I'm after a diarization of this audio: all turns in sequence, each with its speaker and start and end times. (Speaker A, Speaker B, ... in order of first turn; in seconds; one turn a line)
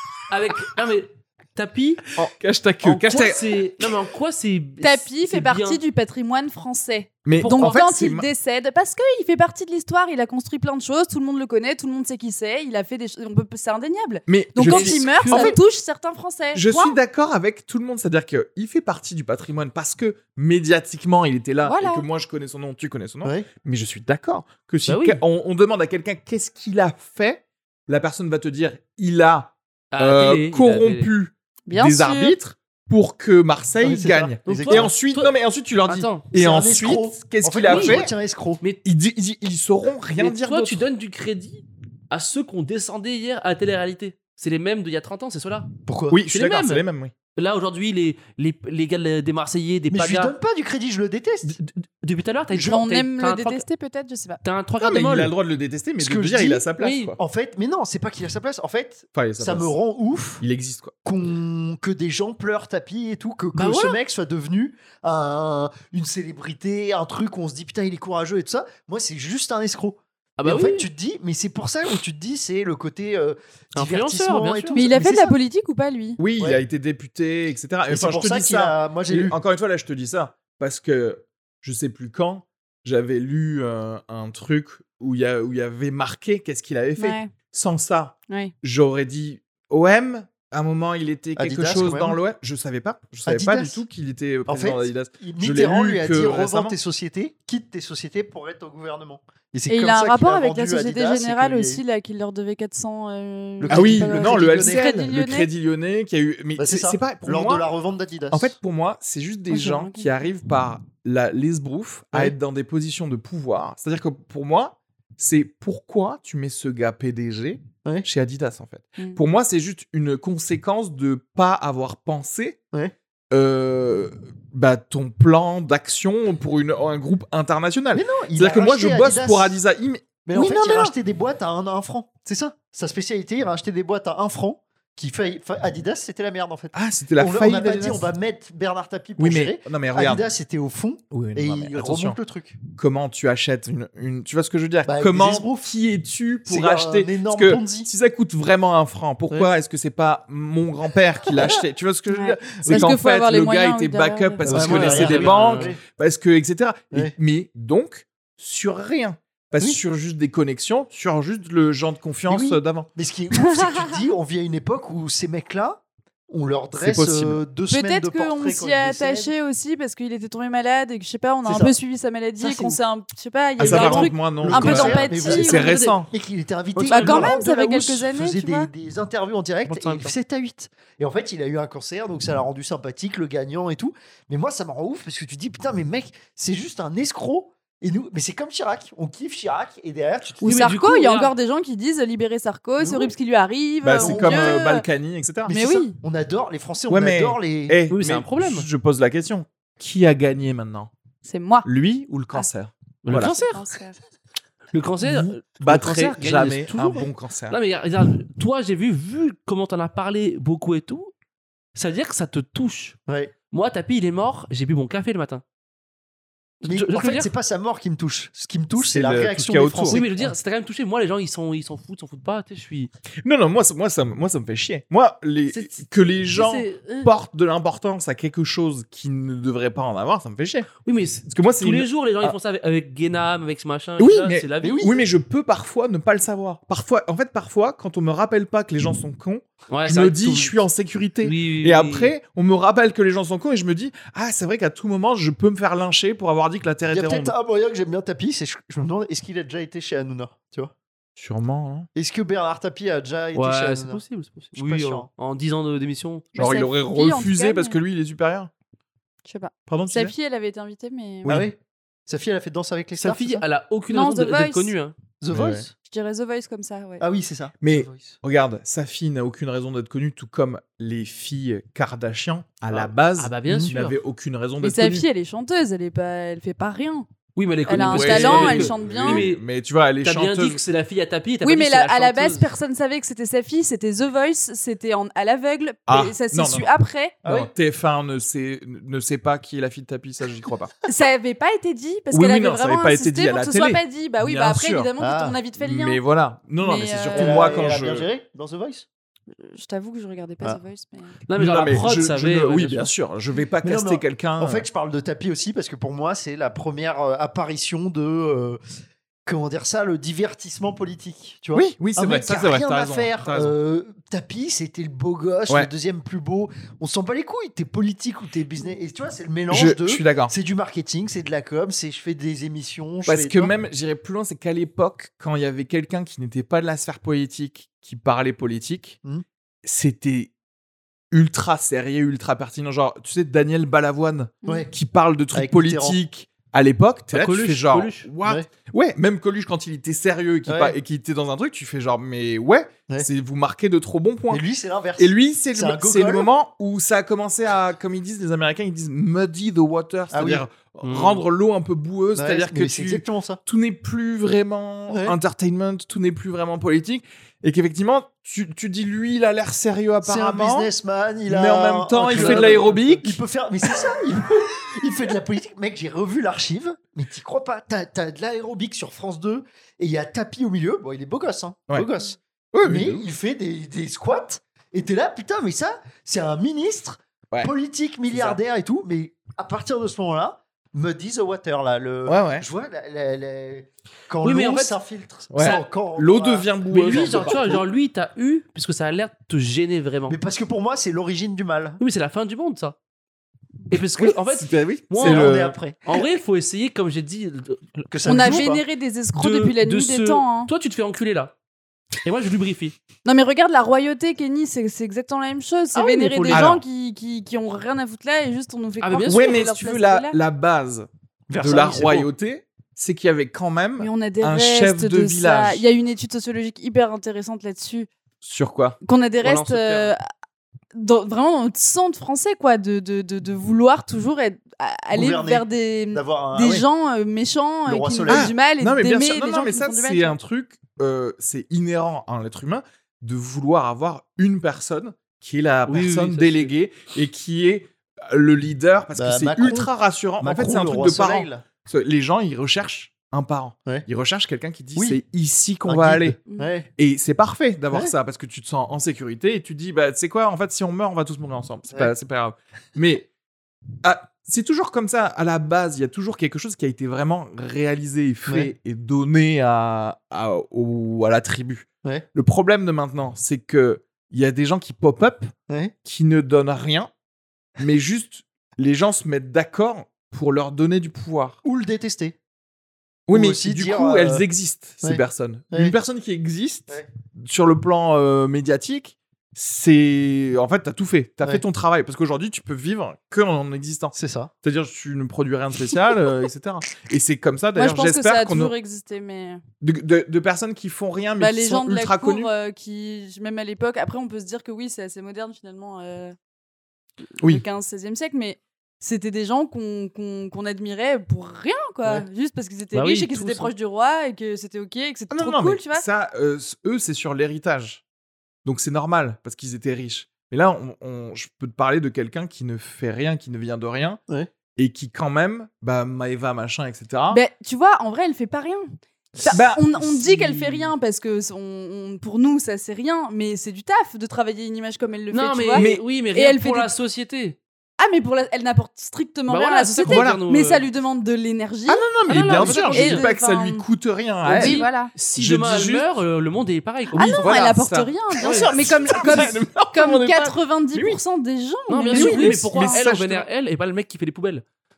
Speaker A: 0.3-2.1
Speaker B: 2.2-3.6
Speaker A: 2.8-5.8
Speaker C: 4.8-17.0
Speaker B: 7.2-8.3
Speaker A: 7.3-7.8
Speaker B: 14.3-15.6
Speaker A: 14.7-15.6
Speaker B: 16.5-38.1
Speaker C: 21.6-22.1
Speaker A: 24.9-25.2
Speaker A: 29.9-31.1
Speaker C: 31.7-32.4
Speaker D: 33.8-34.9
Speaker A: 34.5-35.3
Speaker A: 35.9-36.3
Speaker D: 36.3-38.6
Speaker A: 37.7-38.0
Speaker B: 38.8-40.9
Speaker A: 40.2-45.7
Speaker D: 45.9-46.2
Speaker B: 46.1-47.1
Speaker A: 46.3-46.8
Speaker A: 47.4-50.3
Speaker D: 49.9-51.6
Speaker A: 51.5-53.6
Speaker C: 52.6-54.4
Speaker A: 54.4-55.3
Speaker B: 54.8-57.1
Speaker D: 56.0-60.4
Speaker A: 56.8-57.2
Speaker B: 59.1-59.7
Speaker B: 60.4-60.9
Speaker D: 61.0-75.4
Speaker A: 63.5-64.0
Speaker A: 70.4-70.9
Speaker A: 73.8-74.8
Speaker C: 74.8-76.2
Speaker B: 76.2-96.8
Speaker D: 77.9-79.4
Speaker C: 87.0-87.3
Speaker D: 91.4-92.2
Speaker D: 93.3-93.8
Speaker D: 94.5-101.8
Speaker C: 99.7-105.5
Speaker D: 103.6-104.9
Speaker B: 103.7-107.7
Speaker D: 106.6-108.5
Speaker B: 108.3-122.6
Speaker C: 109.5-110.1
Speaker B: 123.3-130.9
Speaker D: 127.9-129.6
Speaker D: 130.2-142.6
Speaker B: 136.7-138.1
Speaker B: 139.2-140.2
Speaker B: 141.1-142.2
Speaker B: 142.8-162.9
Speaker D: 144.9-145.7
Speaker D: 146.5-147.9
Speaker D: 151.2-151.6
Speaker C: 152.1-154.8
Speaker D: 152.6-153.0
Speaker D: 154.5-155.8
Speaker A: 154.5-155.8
Speaker D: 162.3-169.3
Speaker C: 163.4-164.0
Speaker B: 166.8-167.4
Speaker C: 167.7-175.6
Speaker D: 171.4-171.8
Speaker D: 172.4-172.8
Speaker B: 173.6-176.1
Speaker D: 173.6-190.7
Speaker A: 175.2-176.0
Speaker A: 176.8-177.4
Speaker C: 176.9-178.7
Speaker A: 179.7-180.1
Speaker C: 190.4-194.8
Speaker A: 190.4-191.3
Speaker D: 192.8-193.1
Speaker B: 193.8-195.5
Speaker D: 194.0-194.6
Speaker D: 195.5-197.8
Speaker C: 195.5-196.0
Speaker B: 196.9-200.9
Speaker A: 197.9-198.7
Speaker C: 201.2-201.7
Speaker B: 201.7-203.3
Speaker A: 203.0-203.7
Speaker C: 203.1-204.0
Speaker A: 204.7-211.1
Speaker B: 205.0-207.6
Speaker A: 211.8-213.0
Speaker D: 213.1-213.3
Speaker A: 213.5-215.4
Speaker A: 216.6-217.3
Speaker D: 216.6-220.1
Speaker B: 218.8-220.3
Speaker A: 219.9-222.9
Speaker B: 223.2-230.7
Speaker A: 225.5-227.1
Speaker A: 230.8-234.9
Speaker B: 231.3-232.3
Speaker B: 234.0-247.3
Speaker D: 234.6-235.0
Speaker A: 239.7-240.6
Speaker A: 241.2-242.1
Speaker D: 246.9-250.7
Speaker B: 251.2-251.9
Speaker D: 251.9-254.0
Speaker A: 253.3-256.3
Speaker D: 254.5-255.1
Speaker C: 256.4-257.8
Speaker B: 256.4-258.5
Speaker C: 259.3-261.4
Speaker B: 259.7-260.1
Speaker D: 261.3-263.4
Speaker A: 263.0-265.0
Speaker C: 263.9-264.7
Speaker D: 265.2-265.7
Speaker B: 265.3-265.7
Speaker C: 265.8-267.1
Speaker D: 267.0-268.2
Speaker B: 267.6-275.1
Speaker A: 273.2-274.0
Speaker D: 273.5-273.7
Speaker C: 274.6-277.1
Speaker A: 277.4-279.4
Speaker C: 277.7-279.3
Speaker B: 277.7-280.6
Speaker A: 280.0-282.5
Speaker C: 281.4-287.2
Speaker B: 285.9-286.7
Speaker B: 287.2-290.7
Speaker C: 290.9-296.0
Speaker B: 292.1-294.9
Speaker D: 295.0-295.4
Speaker B: 295.6-298.1
Speaker C: 296.6-297.7
Speaker D: 297.1-298.9
Speaker C: 299.3-301.2
Speaker A: 301.3-302.9
Speaker B: 301.4-304.7
Speaker D: 303.6-308.6
Speaker D: 309.3-323.5
Speaker B: 311.5-313.5
Speaker B: 319.5-320.3
Speaker B: 323.1-329.0
Speaker B: 329.6-330.3
Speaker B: 331.1-344.4
Speaker D: 335.3-336.0
Speaker A: 337.1-338.1
Speaker D: 340.5-340.8
Speaker D: 344.3-346.3
Speaker B: 345.0-360.7
Speaker D: 350.1-350.4
Speaker A: 350.8-351.2
Speaker D: 352.1-353.4
Speaker D: 354.9-355.2
Speaker D: 360.0-387.6
Speaker B: 361.3-363.2
Speaker A: 362.1-362.7
Speaker B: 372.5-373.1
Speaker B: 378.1-378.4
Speaker B: 382.1-382.5
Speaker A: 384.2-384.8
Speaker B: 385.3-387.6
Speaker A: 386.7-390.2
Speaker D: 390.1-391.8
Speaker A: 391.8-392.8
Speaker A: 393.7-398.4
Speaker B: 394.0-395.6
Speaker D: 395.0-396.1
Speaker D: 397.9-398.6
Speaker C: 398.1-400.5
Speaker A: 399.1-401.4
Speaker A: 402.0-402.8
Speaker C: 403.1-410.2
Speaker A: 405.8-406.3
Speaker D: 405.8-406.5
Speaker B: 406.3-406.6
Speaker A: 408.8-409.3
Speaker B: 409.1-410.9
Speaker D: 411.3-412.1
Speaker B: 411.4-415.6
Speaker C: 413.8-417.9
Speaker B: 418.2-418.8
Speaker C: 418.8-420.0
Speaker A: 419.2-419.9
Speaker C: 420.7-430.1
Speaker D: 424.9-426.7
Speaker D: 427.7-428.3
Speaker B: 428.1-446.2
Speaker A: 435.7-436.5
Speaker D: 439.0-441.4
Speaker D: 444.8-445.0
Speaker D: 445.6-446.7
Speaker B: 446.8-453.1
Speaker B: 453.8-465.3
Speaker D: 458.3-458.5
Speaker B: 465.9-466.9
Speaker B: 467.6-471.4
Speaker D: 471.4-472.2
Speaker B: 473.1-488.5
Speaker D: 473.1-474.2
Speaker D: 474.8-475.8
Speaker D: 483.9-484.3
Speaker C: 487.6-489.4
Speaker B: 489.6-492.3
Speaker C: 491.2-496.1
Speaker C: 497.2-505.9
Speaker A: 502.7-503.5
Speaker B: 505.1-507.8
Speaker B: 508.4-514.0
Speaker B: 514.5-517.2
Speaker C: 517.1-526.7
Speaker B: 519.2-519.7
Speaker D: 519.7-520.7
Speaker A: 525.1-527.4
Speaker B: 525.5-525.8
Speaker C: 527.8-533.6
Speaker A: 529.3-530.7
Speaker B: 529.9-530.2
Speaker B: 531.7-535.9
Speaker A: 532.1-533.0
Speaker C: 534.2-534.9
Speaker A: 534.3-537.3
Speaker C: 536.9-542.8
Speaker B: 537.1-541.0
Speaker A: 538.2-538.5
Speaker A: 541.7-544.4
Speaker B: 541.9-543.3